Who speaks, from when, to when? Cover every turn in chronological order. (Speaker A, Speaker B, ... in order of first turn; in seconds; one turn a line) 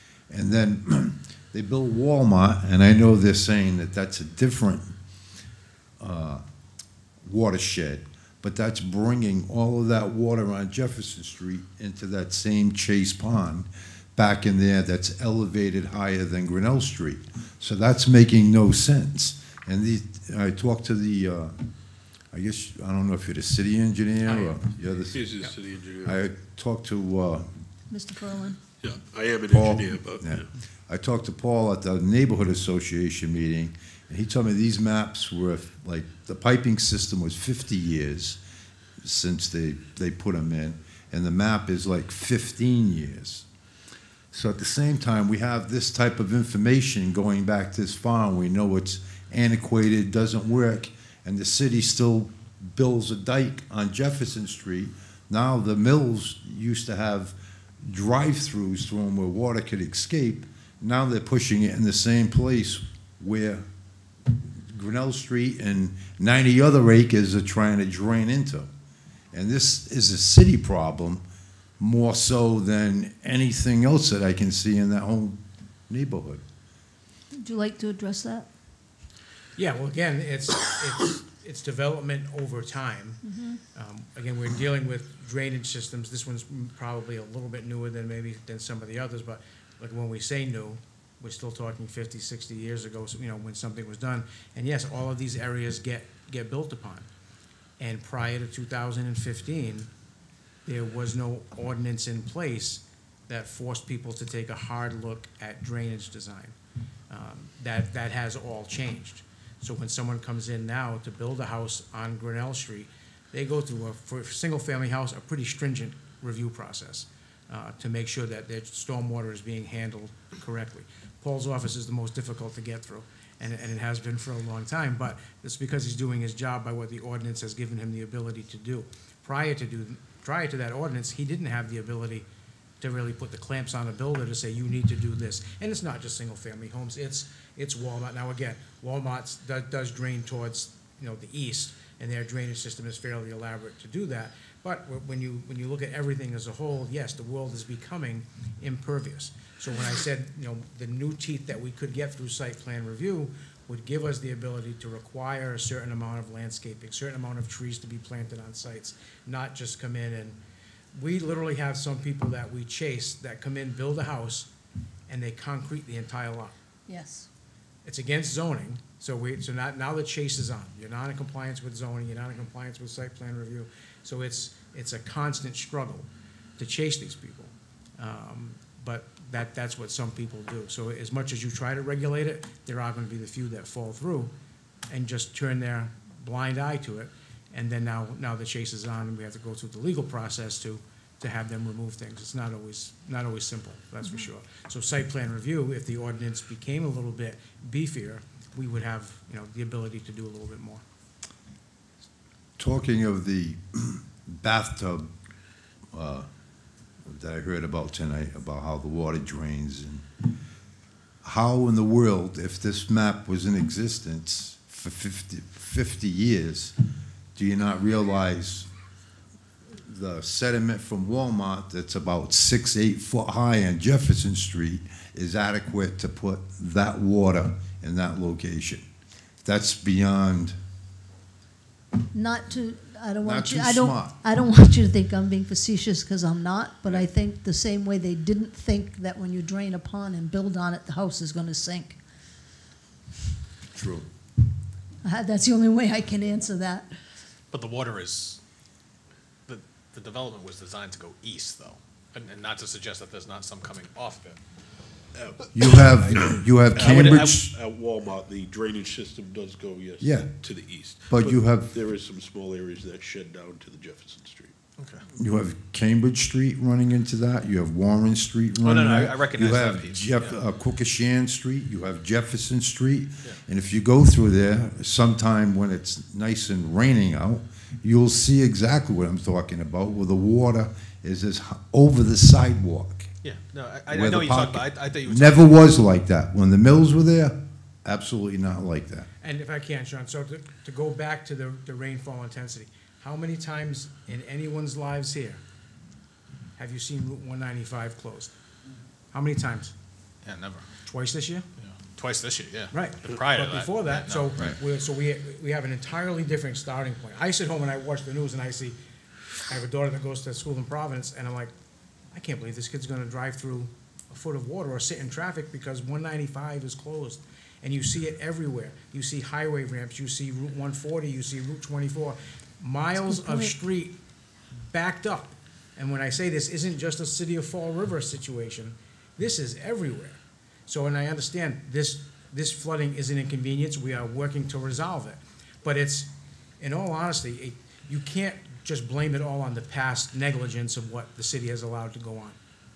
Speaker A: 0.3-4.9
Speaker A: 6.0-6.4
Speaker A: 7.2-21.6
Speaker A: 22.3-25.4
Speaker B: 24.2-24.6
Speaker C: 25.1-26.2
Speaker A: 26.0-27.5
Speaker D: 27.9-28.6
Speaker C: 28.8-30.5
Speaker A: 29.5-38.4
Speaker A: 39.0-43.5
Speaker A: 44.3-63.6
Speaker A: 64.3-68.7
Speaker A: 69.3-71.2
Speaker A: 71.8-76.4
Speaker D: 77.3-78.5
Speaker B: 79.5-97.1
Speaker D: 83.2-83.6
Speaker B: 97.8-99.9
Speaker B: 100.6-106.5
Speaker B: 107.1-132.3
Speaker B: 132.8-160.4
Speaker B: 160.9-164.5
Speaker B: 165.1-166.5
Speaker D: 166.9-167.3
Speaker B: 167.8-184.3
Speaker B: 184.9-200.8
Speaker A: 202.6-205.1
Speaker A: 205.9-206.3
Speaker A: 207.0-210.2
Speaker A: 211.2-216.7
Speaker A: 217.3-218.7
Speaker A: 219.8-228.8
Speaker A: 229.4-230.6
Speaker D: 232.1-242.0
Speaker A: 233.2-234.1
Speaker A: 243.7-244.1
Speaker D: 245.0-246.9
Speaker E: 247.5-248.4
Speaker E: 249.5-254.4
Speaker C: 255.1-264.5
Speaker A: 255.5-257.5
Speaker E: 256.1-257.4
Speaker A: 260.0-260.3
Speaker A: 261.1-261.7
Speaker E: 264.8-265.1
Speaker A: 265.1-283.1
Speaker E: 268.6-270.4
Speaker E: 283.2-285.7
Speaker A: 283.9-289.1
Speaker B: 289.2-295.4
Speaker B: 296.6-298.3
Speaker B: 299.1-299.7
Speaker E: 300.2-300.8
Speaker B: 300.8-301.5
Speaker E: 301.6-304.5
Speaker B: 302.7-308.8
Speaker B: 309.4-311.5
Speaker B: 312.1-323.9
Speaker D: 323.0-323.5
Speaker B: 324.6-342.4